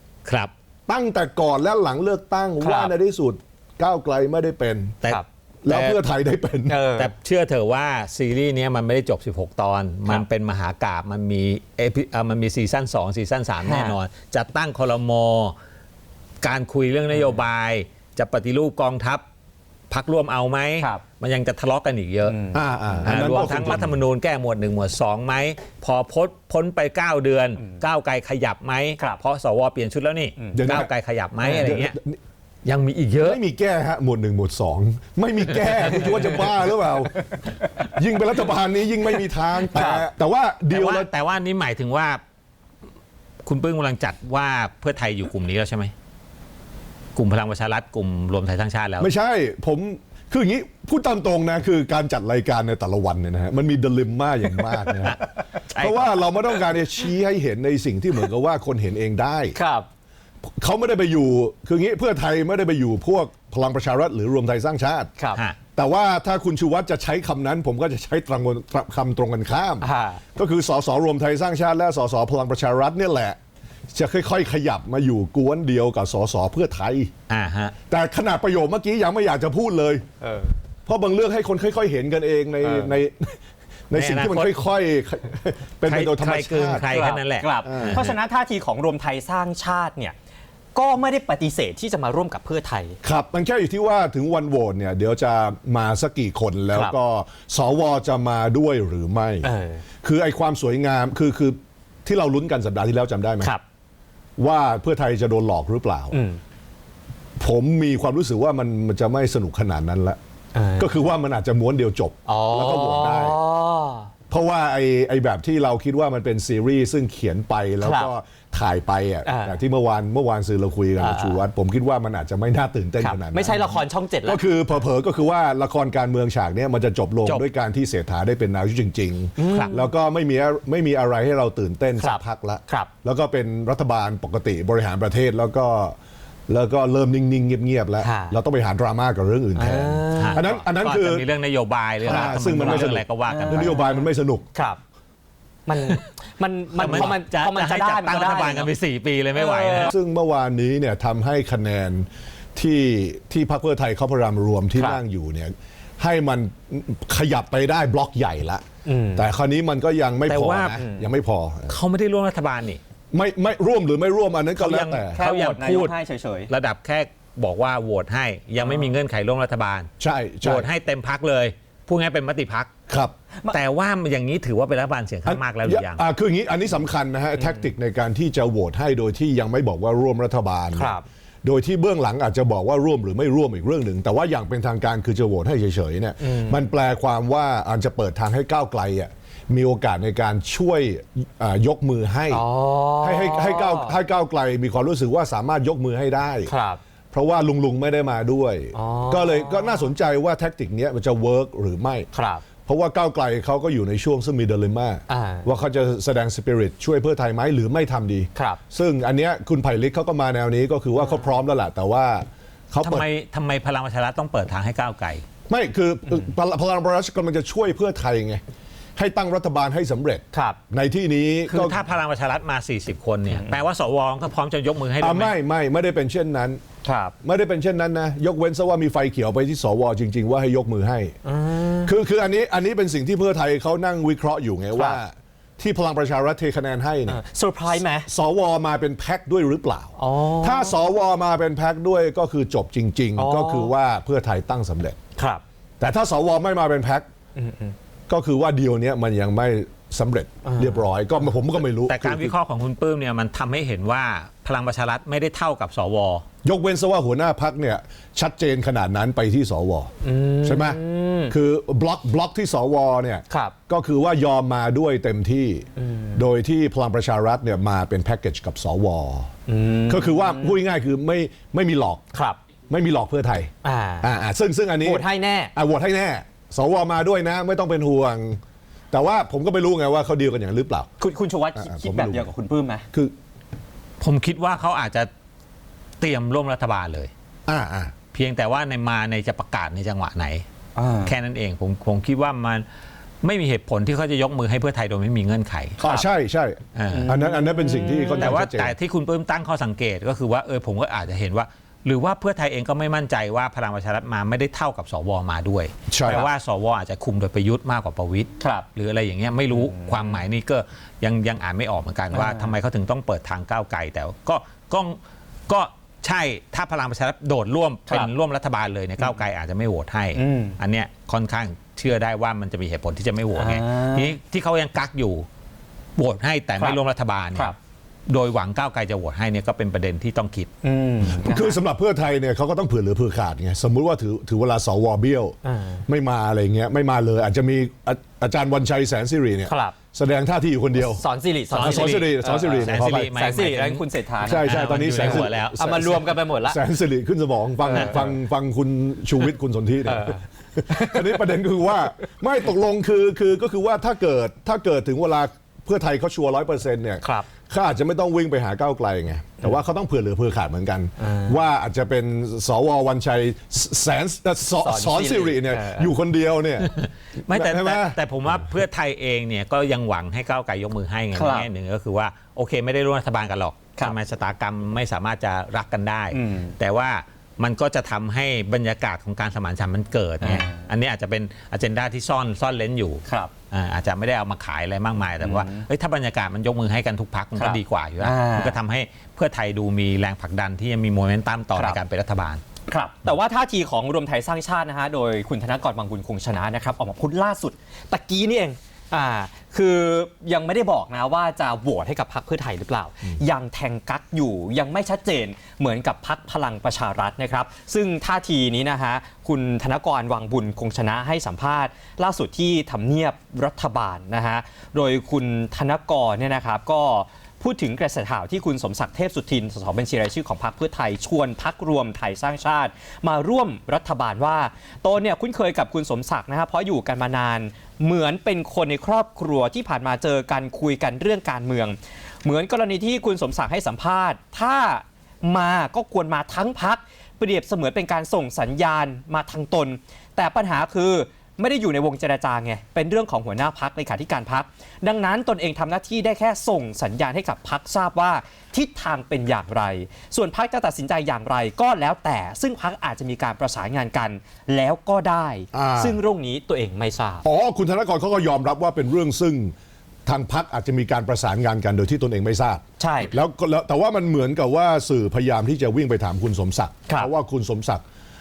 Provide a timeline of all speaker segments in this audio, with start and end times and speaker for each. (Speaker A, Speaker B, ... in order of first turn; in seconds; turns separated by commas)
Speaker A: 0.2-0.5, Speaker B: 0.9-5.0, Speaker C: 2.6-2.9, Speaker A: 5.0-6.0, Speaker B: 5.7-6.8, Speaker C: 6.7-7.1, Speaker A: 7.0-15.6, Speaker C: 13.6-14.0, Speaker A: 16.4-19.2, Speaker C: 17.1-17.4, Speaker A: 19.9-22.4, Speaker C: 22.3-23.6, Speaker B: 22.5-23.9, Speaker A: 23.0-32.0, Speaker B: 30.5-30.9, Speaker C: 31.4-31.8, Speaker B: 31.4-32.2, Speaker A: 32.6-33.4, Speaker B: 33.2-37.2, Speaker C: 35.6-37.9, Speaker B: 37.8-41.1, Speaker C: 39.6-40.1, Speaker A: 40.7-42.2, Speaker A: 43.5-45.9, Speaker A: 47.1-49.1, Speaker B: 49.0-55.2, Speaker C: 54.7-55.1, Speaker A: 55.7-56.2, Speaker B: 55.8-59.6, Speaker C: 59.5-59.9, Speaker B: 60.6-65.1, Speaker C: 65.2-65.4, Speaker B: 65.8-73.4, Speaker C: 69.8-70.2, Speaker B: 73.9-77.1, Speaker A: 77.3-77.8, Speaker B: 77.9-80.0, Speaker C: 80.2-80.5, Speaker B: 80.9-86.8, Speaker C: 82.6-83.0, Speaker A: 83.9-84.5, Speaker A: 85.8-88.2, Speaker C: 86.9-90.2, Speaker B: 87.6-88.1, Speaker C: 90.8-93.0, Speaker B: 93.0-99.5, Speaker C: 99.4-99.8, Speaker B: 100.0-103.5, Speaker B: 104.4-106.2, Speaker C: 106.1-106.4, Speaker B: 107.4-110.2, Speaker C: 110.5-110.9, Speaker B: 110.8-113.4, Speaker C: 112.3-114.1, Speaker B: 114.3-136.0, Speaker C: 117.8-118.1, Speaker C: 119.2-119.6, Speaker C: 121.0-121.4, Speaker C: 123.0-124.5, Speaker C: 129.4-129.9, Speaker A: 129.5-129.8, Speaker C: 132.0-132.9, Speaker B: 136.5-141.2, Speaker C: 138.0-138.4, Speaker C: 139.6-140.4, Speaker A: 140.1-143.8, Speaker B: 142.0-144.4, Speaker C: 142.1-144.8, Speaker C: 145.7-148.7, Speaker A: 146.8-149.9, Speaker B: 146.8-147.2, Speaker C: 149.3-149.9, Speaker B: 149.8-158.6, Speaker C: 154.8-155.0, Speaker C: 158.8-159.3, Speaker B: 159.2-161.8, Speaker A: 160.3-160.8, Speaker C: 160.8-161.1, Speaker A: 161.7-162.8, Speaker B: 163.1-165.2, Speaker A: 164.6-165.9, Speaker C: 165.1-166.5, Speaker A: 166.5-169.9, Speaker C: 168.6-168.9, Speaker B: 170.0-170.7, Speaker A: 170.4-172.7, Speaker B: 172.9-173.1, Speaker A: 173.5-176.0, Speaker B: 175.2-192.4, Speaker C: 177.4-177.7, Speaker C: 180.7-181.1, Speaker C: 186.2-186.6, Speaker C: 192.3-194.0, Speaker B: 193.0-196.5, Speaker C: 196.5-196.8, Speaker B: 197.1-202.1, Speaker C: 198.7-199.9, Speaker C: 202.1-202.4, Speaker B: 202.7-213.1, Speaker C: 205.1-205.5, Speaker C: 208.3-208.6, Speaker A: 212.8-215.2, Speaker B: 215.5-218.4, Speaker B: 219.0-221.8, Speaker C: 220.3-220.6, Speaker A: 221.5-225.3, Speaker C: 223.3-223.6, Speaker B: 225.0-226.6, Speaker C: 226.8-227.2, Speaker B: 227.2-231.2, Speaker C: 231.2-231.9, Speaker B: 231.8-237.2, Speaker C: 234.7-235.0, Speaker C: 237.1-238.1, Speaker B: 237.7-245.0, Speaker C: 240.0-240.8, Speaker C: 243.2-243.7, Speaker C: 245.2-245.4, Speaker B: 245.8-247.1, Speaker C: 247.4-247.8, Speaker B: 248.1-252.3, Speaker C: 250.4-250.9, Speaker A: 251.8-256.2, Speaker B: 256.4-259.9, Speaker C: 260.0-261.3, Speaker B: 260.4-269.3, Speaker C: 263.3-263.6, Speaker C: 265.8-266.3, Speaker C: 269.5-270.6, Speaker B: 269.9-272.0, Speaker C: 272.1-272.4, Speaker B: 272.7-278.4, Speaker C: 273.6-274.1, Speaker C: 274.8-275.5, Speaker B: 278.9-280.9, Speaker C: 281.0-282.9, Speaker B: 281.6-282.3, Speaker A: 284.0-285.1, Speaker A: 286.0-287.1, Speaker B: 287.5-287.9, Speaker A: 288.1-290.4, Speaker C: 290.8-291.2, Speaker A: 291.0-292.7, Speaker A: 293.2-295.8, Speaker B: 295.8-298.8, Speaker A: 296.7-297.1, Speaker C: 296.9-298.3, Speaker A: 298.1-325.3, Speaker B: 305.9-306.3, Speaker C: 308.4-308.7, Speaker C: 309.5-310.2, Speaker C: 312.1-312.5, Speaker C: 319.0-319.2, Speaker C: 320.1-320.6, Speaker C: 323.4-324.1, Speaker A: 326.0-327.6, Speaker A: 328.1-330.5, Speaker C: 330.6-331.6, Speaker B: 331.1-335.4, Speaker C: 335.4-335.8, Speaker B: 335.9-341.0, Speaker C: 339.5-339.8, Speaker C: 340.8-346.6, Speaker A: 341.5-345.9, Speaker B: 341.6-343.1, Speaker B: 344.2-366.7, Speaker C: 347.6-348.1, Speaker C: 349.9-351.4, Speaker C: 357.0-357.3, Speaker C: 361.0-361.4, Speaker C: 364.6-365.9, Speaker A: 366.6-392.4, Speaker B: 367.3-368.0, Speaker C: 371.1-371.5, Speaker C: 376.1-376.6, Speaker C: 380.2-380.6, Speaker C: 383.1-383.3, Speaker C: 385.2-385.7, Speaker C: 387.4-388.6, Speaker C: 391.5-391.8, Speaker C: 392.7-457.2, Speaker B: 455.5-456.0, Speaker B: 457.2-459.5, Speaker B: 460.1-467.8, Speaker C: 462.8-463.1